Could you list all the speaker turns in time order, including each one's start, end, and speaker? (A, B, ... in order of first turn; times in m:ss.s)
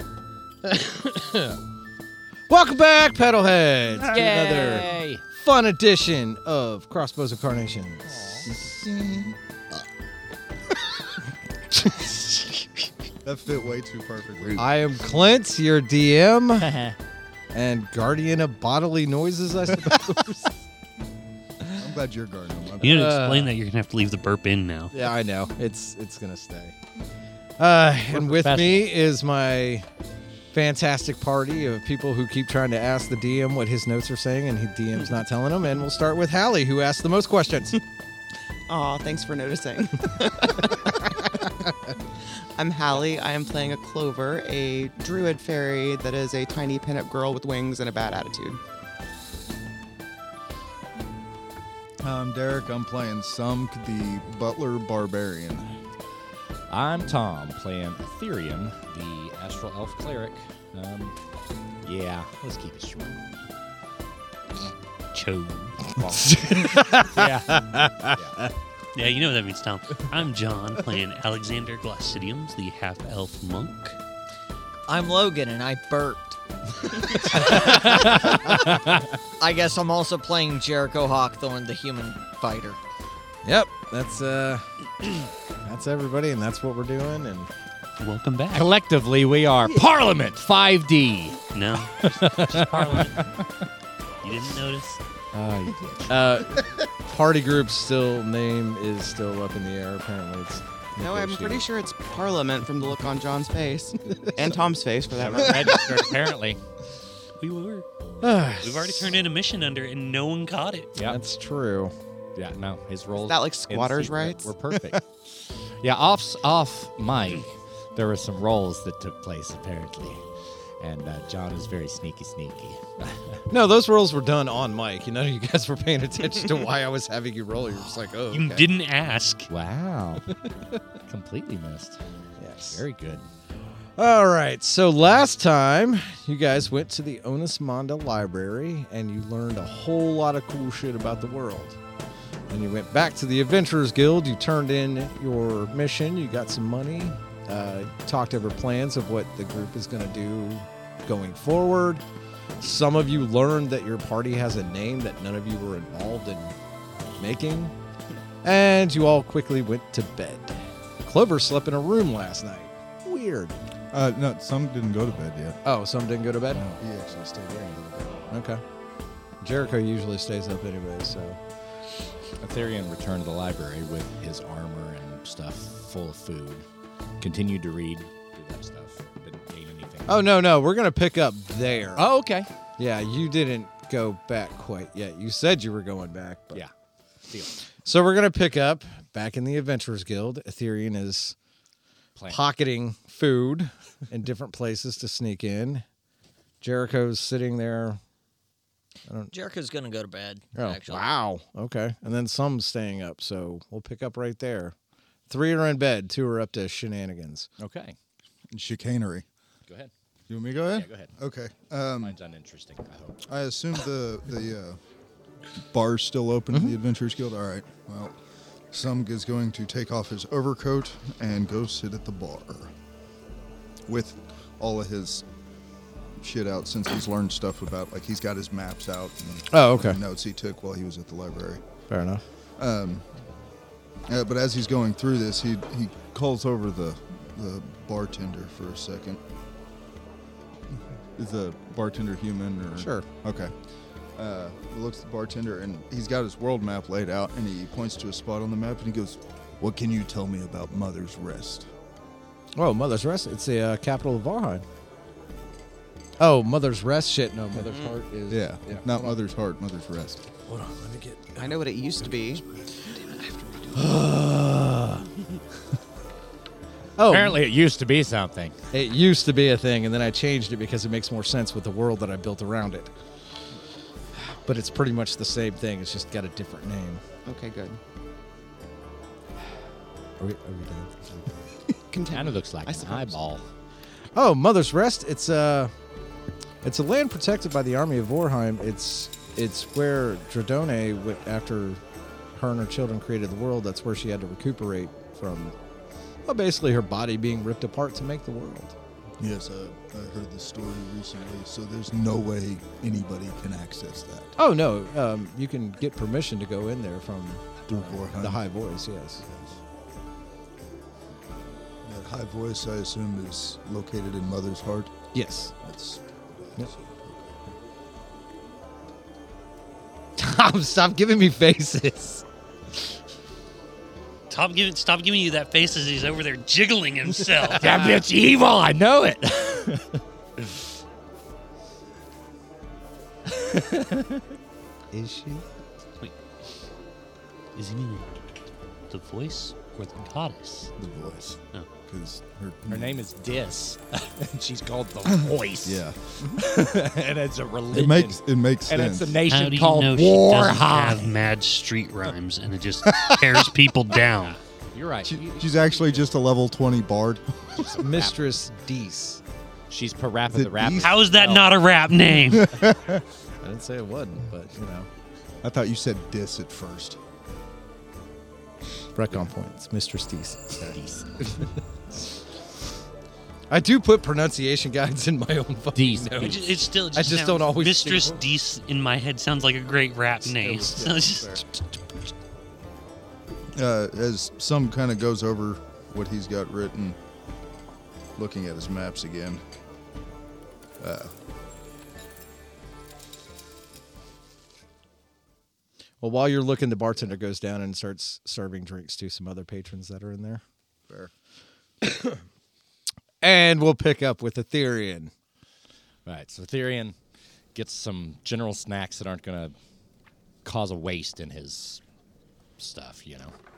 0:00.6-0:01.6 A
0:02.5-0:08.2 A
0:04.0-0:05.2 B
0:08.2-0:08.4 B
0:08.4-0:09.4 C
0:11.8-0:12.7 A
0:13.2-0:14.7 C
0:14.4-0:14.6 B
0:14.6-0:16.8 A
0:16.6-0:17.0 B
0:17.5-0:20.6 A
0:21.7-0:23.1 C
0:22.8-0:25.0 D
0:22.8-0:23.6 A
0:24.9-0:26.8 A
0:27.6-0:29.9 A
0:28.2-0:28.8 B
0:30.5-0:37.8 A
0:38.7-0:41.5 E
0:42.6-0:48.6 E
0:52.0-0:55.8 C
0:56.7-1:01.2 B
1:01.8-1:03.4 B
1:05.1-1:06.0 D
1:06.0-1:08.4 B
1:06.1-1:08.5 A
1:09.0-1:14.0 D
1:14.9-1:18.7 F
1:17.3-1:19.0 A
1:19.4-1:22.8 F
1:23.4-1:27.5 A
1:28.0-1:28.7 D
1:28.5-1:31.4 B
1:31.5-1:33.3 D
1:32.2-1:32.6 A
1:34.2-1:35.0 D
1:35.3-1:36.7 B
1:36.1-1:41.6 A
1:41.0-1:45.9 E
1:45.1-1:46.6 B
1:47.4-1:47.9 D
1:48.2-1:49.2 A
1:48.6-1:50.9 D
1:51.0-1:51.9 A
1:52.4-2:00.2 B
1:53.2-1:54.5 E
2:00.8-2:03.4 B
2:03.5-2:08.7 A
2:08.3-2:09.5 D
2:09.5-2:10.3 B
2:11.1-2:12.0 B
2:12.4-2:12.8 A
2:12.7-2:13.3 B
2:14.0-2:21.8 A
2:22.5-2:32.0 A
2:32.6-2:36.6 A
2:37.2-2:37.7 A
2:38.4-2:43.6 A
2:43.9-2:45.6 C
2:45.6-2:46.8 A
2:46.5-2:48.2 C
2:48.3-2:48.6 A
2:49.4-2:51.4 A
2:52.4-2:56.7 B
2:57.2-3:00.3 B
3:00.1-3:02.0 A
3:02.0-3:02.5 B
3:02.8-3:06.6 A
3:07.3-3:07.6 B
3:07.8-3:11.4 A
3:12.2-3:12.4 B
3:12.3-3:15.8 A
3:16.6-3:18.0 A
3:19.1-3:19.3 A
3:19.3-3:21.1 F
3:20.6-3:24.8 A
3:25.3-3:27.5 A
3:27.6-3:28.0 B
3:28.5-3:29.3 C
3:30.3-3:32.2 C
3:30.7-3:31.1 B
3:32.0-3:33.2 B
3:33.3-3:34.8 C
3:35.6-3:38.2 C
3:36.5-3:36.8 A
3:38.7-3:42.7 C
3:43.9-3:45.3 C
3:46.2-3:51.6 C
3:49.5-3:50.0 A
3:51.9-3:52.2 A
3:52.6-3:53.1 C
3:54.1-3:59.2 C
4:00.8-4:03.5 C
4:02.8-4:03.1 A
4:04.2-4:11.7 C
4:12.6-4:14.6 A
4:16.2-4:19.2 A
4:17.7-4:17.9 E
4:18.3-4:20.3 C
4:20.5-4:22.9 A
4:21.4-4:22.4 E
4:23.1-4:23.7 E
4:23.7-4:25.1 A
4:27.0-4:27.4 A
4:27.1-4:28.6 B
4:28.7-4:32.9 A
4:34.1-4:37.0 A
4:37.3-4:37.8 E
4:40.2-4:41.4 A
4:41.9-4:43.1 E
4:42.1-4:43.5 B
4:44.2-4:45.7 A
4:46.6-4:51.8 A
4:52.4-4:55.6 A
4:56.3-4:58.8 A
4:59.2-5:04.4 C
5:04.4-5:09.2 A
5:07.7-5:08.4 C
5:09.2-5:09.6 C
5:11.8-5:15.0 C
5:15.1-5:15.5 A
5:15.6-5:17.3 C
5:20.2-5:22.2 A
5:24.3-5:27.8 D
5:27.5-5:30.0 B
5:33.3-5:34.2 B
5:34.9-5:35.4 A
5:37.6-5:38.2 D
5:38.9-5:40.7 D
5:40.8-5:43.1 C
5:42.7-5:51.2 B
5:45.3-5:46.9 C
5:47.7-5:49.2 C
5:49.3-5:54.4 D
5:52.9-5:53.5 C
5:54.0-5:56.1 B
5:55.1-5:57.9 C
5:57.6-5:58.3 B
5:57.8-5:59.2 A
5:59.7-6:01.6 B
6:00.3-6:01.0 C
6:00.8-6:02.5 D
6:02.3-6:03.0 C
6:03.4-6:04.9 A
6:05.4-6:07.0 C
6:09.0-6:10.8 A
6:10.6-6:11.5 B
6:13.5-6:18.3 A
6:15.7-6:16.4 B
6:16.2-6:21.6 D
6:20.3-6:21.4 C
6:23.6-6:27.0 C
6:28.2-6:29.4 C
6:30.8-6:31.1 C
6:36.0-6:40.4 A
6:41.8-6:42.2 A
6:43.2-6:45.1 A
6:46.1-6:47.0 B
6:47.5-6:49.6 B
6:50.4-6:51.8 B
6:52.6-6:53.4 B